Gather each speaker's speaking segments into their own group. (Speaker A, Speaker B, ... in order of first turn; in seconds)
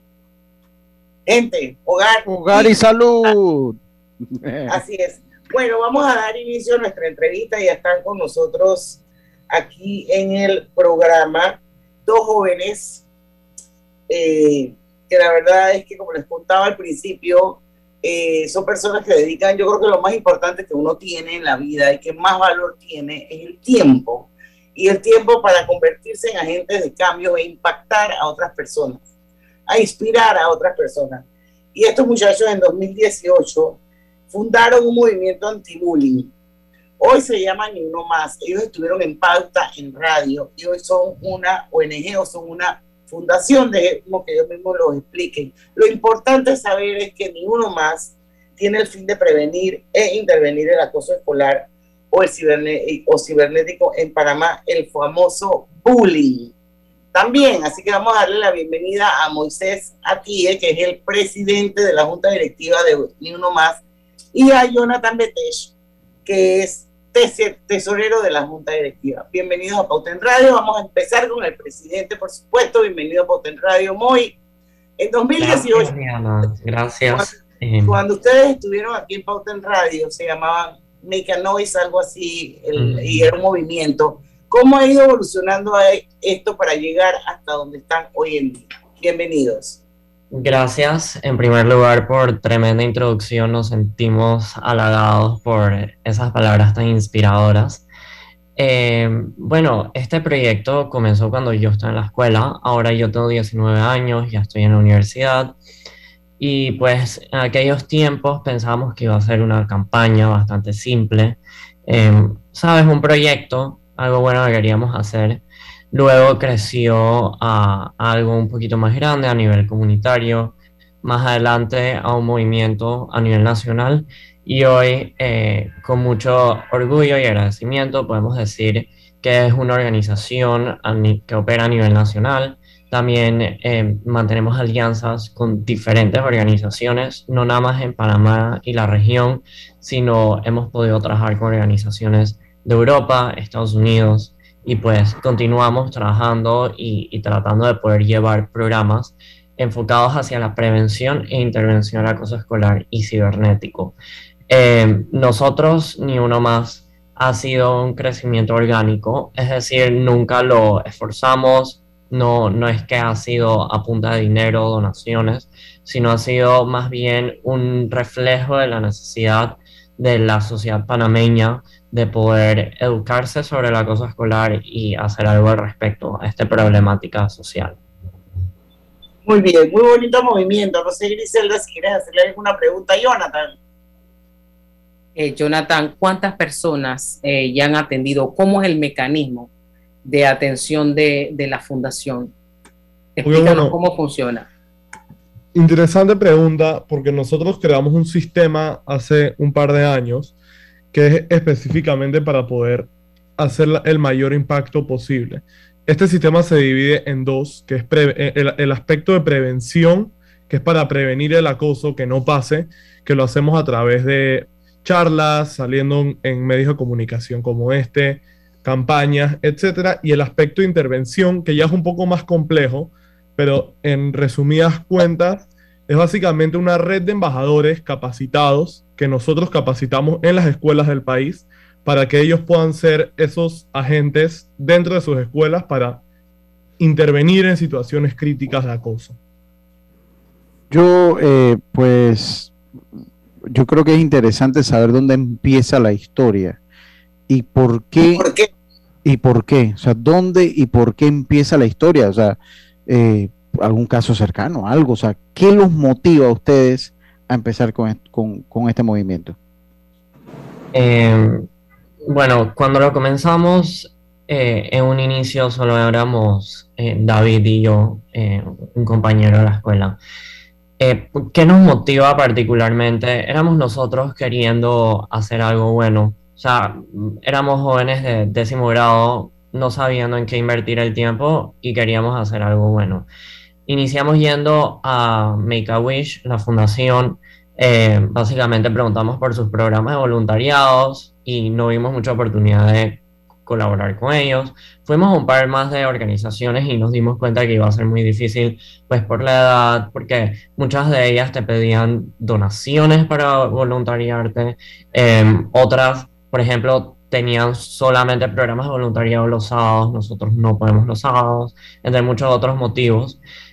Speaker A: 1.2-3.3, 4.7-13.0, 14.1-29.0, 29.7-33.8, 34.3-36.3, 37.0-56.5, 57.1-63.8, 64.3-65.7, 66.2-74.4, 75.0-75.9, 77.1-89.8, 179.2-183.5, 248.2-248.5
Speaker B: 2.2-4.8, 240.7-242.5, 243.5-246.6, 247.3-248.2, 249.0-259.4
Speaker C: 75.4-78.0, 82.8-83.3, 90.3-97.8, 98.5-105.5, 106.4-153.9, 154.5-177.8, 260.7-261.5, 262.0-270.0, 270.8-283.1, 283.7-313.2
Speaker D: 185.2-189.5, 190.0-192.3, 193.2-194.5
Speaker E: 193.2-193.7, 195.5-200.3, 200.9-236.0, 236.8-239.2